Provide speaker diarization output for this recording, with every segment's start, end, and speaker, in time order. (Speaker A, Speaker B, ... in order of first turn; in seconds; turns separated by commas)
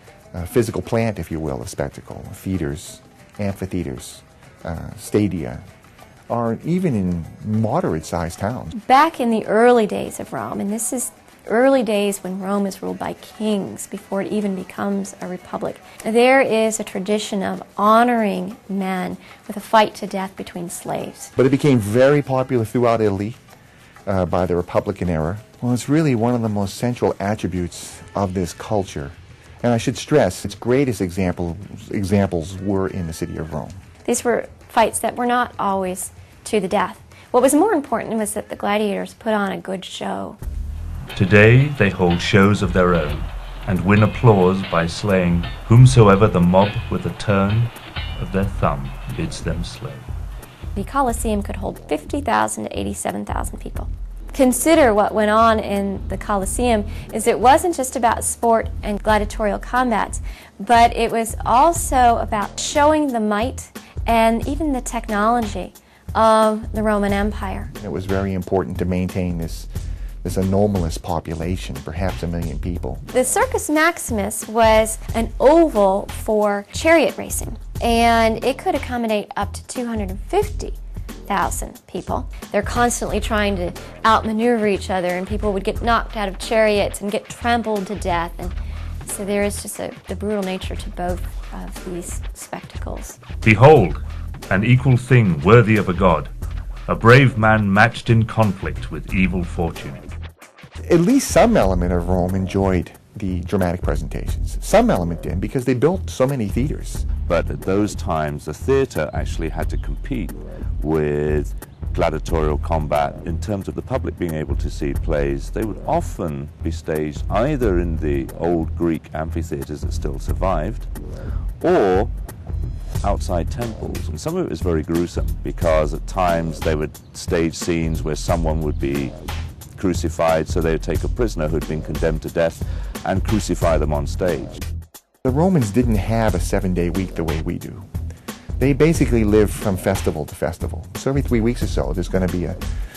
Speaker A: 0.3-5.6, Speaker A: 6.3-8.7, Speaker B: 8.7-21.3, Speaker A: 21.4-23.4, Speaker A: 24.1-33.8, Speaker B: 34.0-40.4, Speaker C: 41.1-50.1, Speaker B: 50.7-67.7, Speaker A: 67.8-69.7, Speaker A: 70.2-73.0, Speaker B: 73.1-93.2, Speaker C: 93.4-96.3, Speaker C: 96.9-100.0, Speaker A: 100.9-107.1, Speaker D: 107.2-120.9, Speaker D: 121.6-122.1, Speaker D: 123.0-129.1, Speaker D: 129.8-134.6, Speaker A: 135.2-137.9, Speaker A: 138.6-142.6